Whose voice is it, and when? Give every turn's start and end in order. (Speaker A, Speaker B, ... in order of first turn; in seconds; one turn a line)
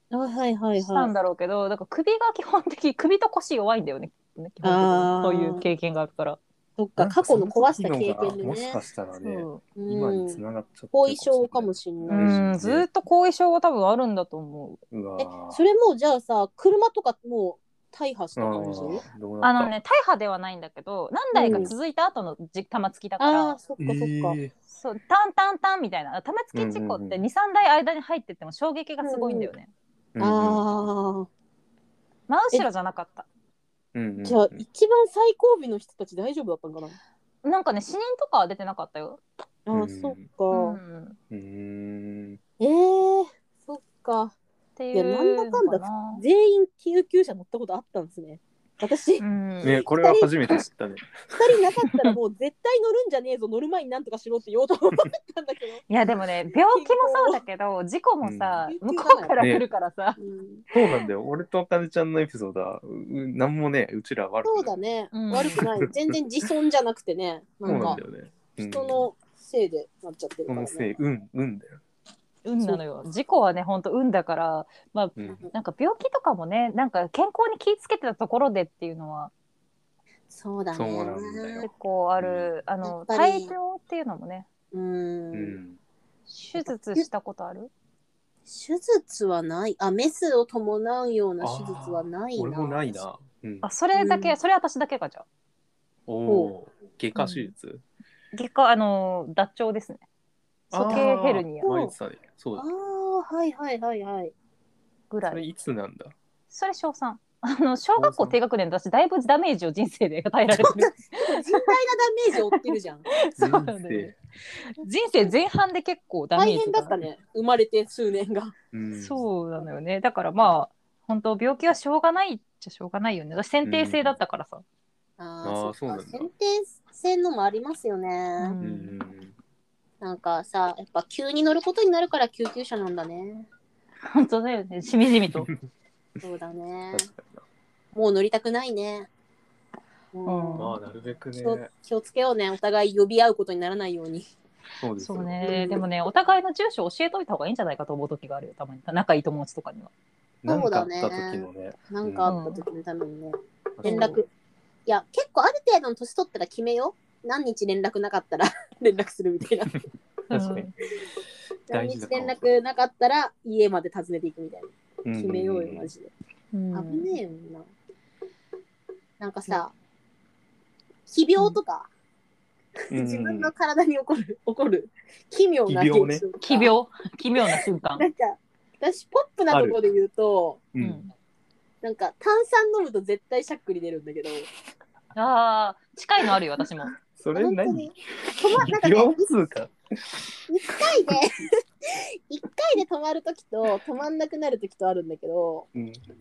Speaker A: 0.1-1.1
Speaker B: 0.8-6.4
Speaker A: 4.6-5.6
Speaker A: 6.8-8.8
Speaker C: 7.0-12.8
Speaker B: 9.2-9.6
Speaker A: 9.8-12.4
Speaker B: 12.1-14.8
Speaker C: 14.9-15.6
Speaker A: 15.2-19.0
Speaker C: 18.4-19.7
Speaker B: 19.4-23.6
Speaker A: 21.4-21.7
Speaker C: 21.5-21.7
Speaker A: 23.2-24.4
Speaker C: 23.8-24.5
Speaker B: 24.7-29.7
Speaker C: 26.5-27.2
Speaker A: 29.0-29.5
Speaker C: 30.1-30.6
Speaker A: 30.2-31.3
Speaker B: 32.3-33.2
Speaker C: 33.9-34.6
Speaker A: 34.2-37.0
Speaker B: 37.4-39.2
Speaker A: 39.6-40.8
Speaker C: 39.7-40.2
Speaker B: 40.5-41.2
Speaker C: 41.3-42.4
Speaker A: 42.6-44.4
Speaker B: 44.8-46.2
Speaker A: 44.9-50.6
Speaker B: 49.2-49.8
Speaker C: 49.6-51.2
Speaker A: 51.3-55.8
Speaker B: 51.9-52.1
Speaker B: 55.9-60.2
Speaker A: 56.5-57.4
Speaker C: 58.2-58.7
Speaker A: 58.7-59.4
Speaker C: 59.4-59.6
Speaker A: 60.2-60.6
Speaker C: 60.7-64.7
Speaker B: 60.7-61.1
Speaker A: 64.4-68.0
Speaker B: 65.1-65.6
Speaker C: 65.6-66.1
Speaker C: 67.6-69.1
Speaker B: 67.7-68.0
Speaker A: 68.6-70.9
Speaker C: 70.5-71.8
Speaker B: 72.4-79.3
Speaker C: 75.2-75.4
Speaker A: 80.3-81.7
Speaker C: 80.7-81.7
Speaker B: 81.6-84.5
Speaker C: 82.2-82.5
Speaker A: 82.8-83.5
Speaker A: 84.7-85.6
Speaker C: 85.3-85.8
Speaker B: 86.3-87.7
Speaker A: 86.6-87.1
Speaker A: 88.5-93.0
Speaker C: 91.4-93.7
Speaker B: 93.6-95.2
Speaker A: 93.9-94.3
Speaker C: 96.1-97.8
Speaker A: 96.3-96.5
Speaker B: 97.2-97.5
Speaker B: 98.3-100.0
Speaker B: 100.7-101.7
Speaker C: 100.7-102.7
Speaker A: 100.9-101.9
Speaker A: 102.6-104.3
Speaker B: 105.1-105.4
Speaker C: 105.3-106.2
Speaker B: 106.5-111.7
Speaker C: 108.0-108.4
Speaker A: 110.6-113.1
Speaker B: 112.5-114.1
Speaker C: 113.4-114.1
Speaker B: 114.8-116.9
Speaker A: 116.3-118.5
Speaker C: 118.7-119.2
Speaker B: 119.0-124.6
Speaker C: 123.6-124.2
Speaker A: 125.2-128.6
Speaker C: 125.4-126.3
Speaker B: 128.4-128.9
Speaker C: 128.6-129.3
Speaker A: 130.0-133.5
Speaker B: 134.0-135.5
Speaker A: 136.2-137.1
Speaker C: 136.9-137.4
Speaker A: 137.9-139.1
Speaker A: 140.1-140.7
Speaker B: 140.2-140.8
Speaker C: 140.6-141.7
Speaker A: 141.4-144.3
Speaker C: 144.8-145.7
Speaker B: 145.0-149.9
Speaker A: 145.4-145.8
Speaker C: 150.4-152.3
Speaker A: 150.5-154.3
Speaker B: 152.2-152.6
Speaker C: 153.8-154.1
Speaker B: 153.8-154.2
Speaker A: 154.9-159.7
Speaker B: 160.3-160.7
Speaker C: 160.3-160.7
Speaker C: 161.7-162.4
Speaker A: 161.7-166.1
Speaker C: 165.0-165.9
Speaker B: 166.5-167.1
Speaker A: 166.7-167.7
Speaker A: 169.2-169.7
Speaker A: 171.1-171.9
Speaker A: 172.9-176.7
Speaker C: 172.9-173.5
Speaker C: 175.7-176.2
Speaker B: 176.4-178.1
Speaker A: 177.4-180.6
Speaker C: 179.5-179.8
Speaker C: 180.7-181.0
Speaker B: 180.8-181.1
Speaker A: 181.8-184.5
Speaker B: 185.1-186.9
Speaker C: 187.1-191.1
Speaker A: 187.3-189.2
Speaker A: 190.5-191.3
Speaker A: 191.9-195.7
Speaker C: 195.7-196.0